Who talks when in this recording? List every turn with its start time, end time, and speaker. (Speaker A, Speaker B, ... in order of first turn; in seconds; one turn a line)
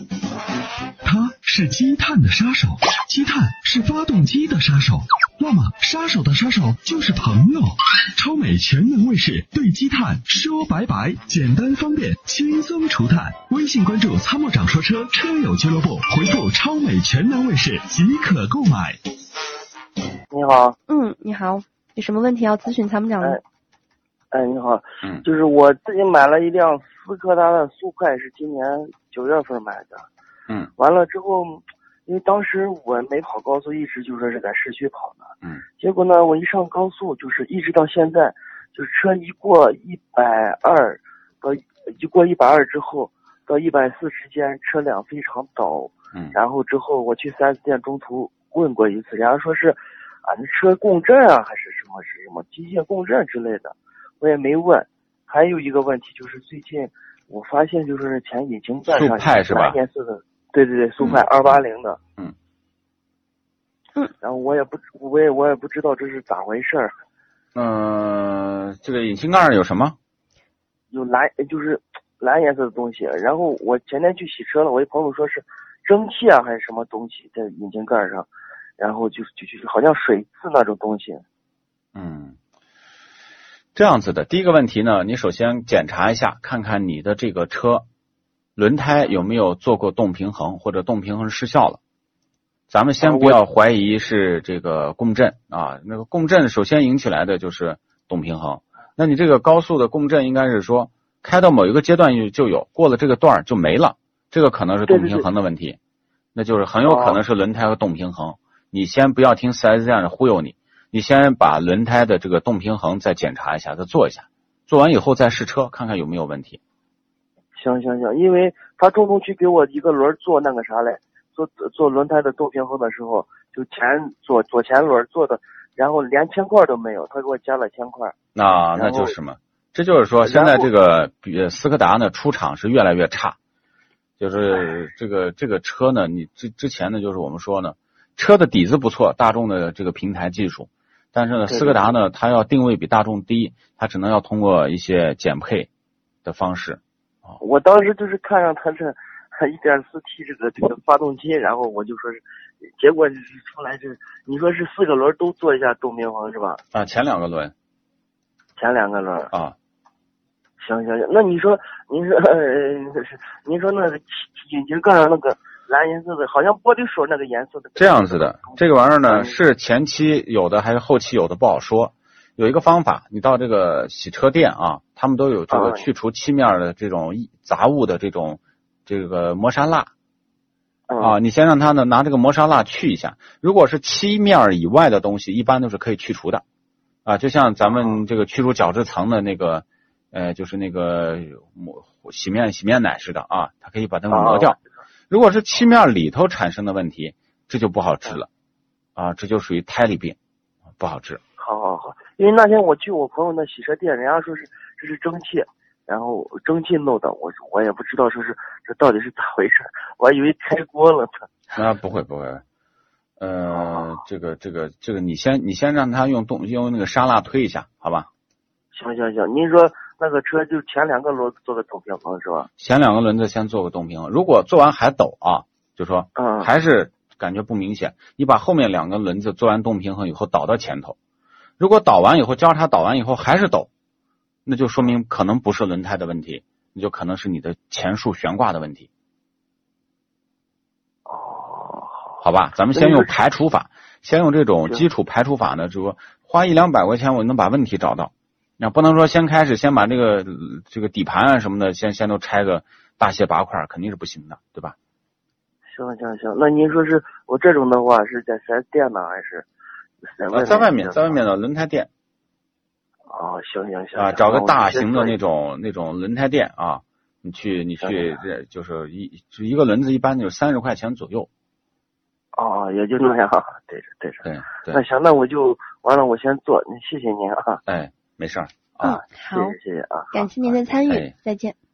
Speaker A: 1.0-19.0
Speaker B: 20.3-20.8
Speaker C: 20.9-23.4
Speaker B: 24.3-30.1
Speaker B: 30.8-35.3
Speaker B: 35.8-62.0
Speaker D: 58.9-59.8
Speaker B: 64.2-66.9
Speaker D: 67.5-70.0
Speaker B: 70.9-81.2
Speaker D: 81.9-82.4
Speaker D: 83.7-87.8
Speaker D: 88.5-91.8
Speaker D: 92.7-105.8
Speaker B: 93.0-93.4
Speaker B: 104.9-105.2
Speaker D: 106.3-116.6
Speaker B: 106.8-107.2
Speaker B: 117.5-128.2
Speaker D: 128.3-133.3
Speaker B: 128.7-129.1
Speaker B: 130.2-130.7
Speaker D: 134.2-145.7
Speaker B: 141.5-141.9
Speaker D: 146.2-147.4
Speaker B: 147.4-156.6
Speaker D: 156.7-157.5
Speaker B: 158.6-159.3
Speaker B: 160.6-169.4
Speaker D: 167.8-179.9
Speaker B: 175.5-175.8
Speaker B: 180.9-181.2
Speaker D: 181.0-186.4
Speaker D: 187.0-194.6
Speaker B: 187.6-188.0
Speaker B: 194.1-194.6
Speaker D: 195.1-198.3
Speaker D: 198.9-200.2
Speaker D: 200.8-201.2
Speaker B: 201.4-211.2
Speaker D: 211.5-212.4
Speaker D: 213.2-218.1
Speaker B: 213.5-213.9
Speaker B: 218.7-222.5
Speaker D: 222.6-230.9
Speaker B: 226.2-226.5
Speaker D: 231.6-233.7
Speaker D: 234.4-238.9
Speaker B: 241.1-242.1
Speaker D: 242.2-254.7
Speaker B: 242.7-243.1
Speaker B: 255.7-259.4
Speaker B: 260.1-261.2
Speaker D: 260.3-261.9
Speaker B: 263.1-265.2
Speaker D: 263.9-271.3
Speaker B: 267.8-268.2
Speaker B: 272.3-277.6
Speaker D: 274.2-274.8
Speaker D: 277.7-279.0
Speaker C: 278.8-279.6
Speaker B: 279.1-280.6
Speaker C: 280.1-281.6
Speaker D: 280.9-281.1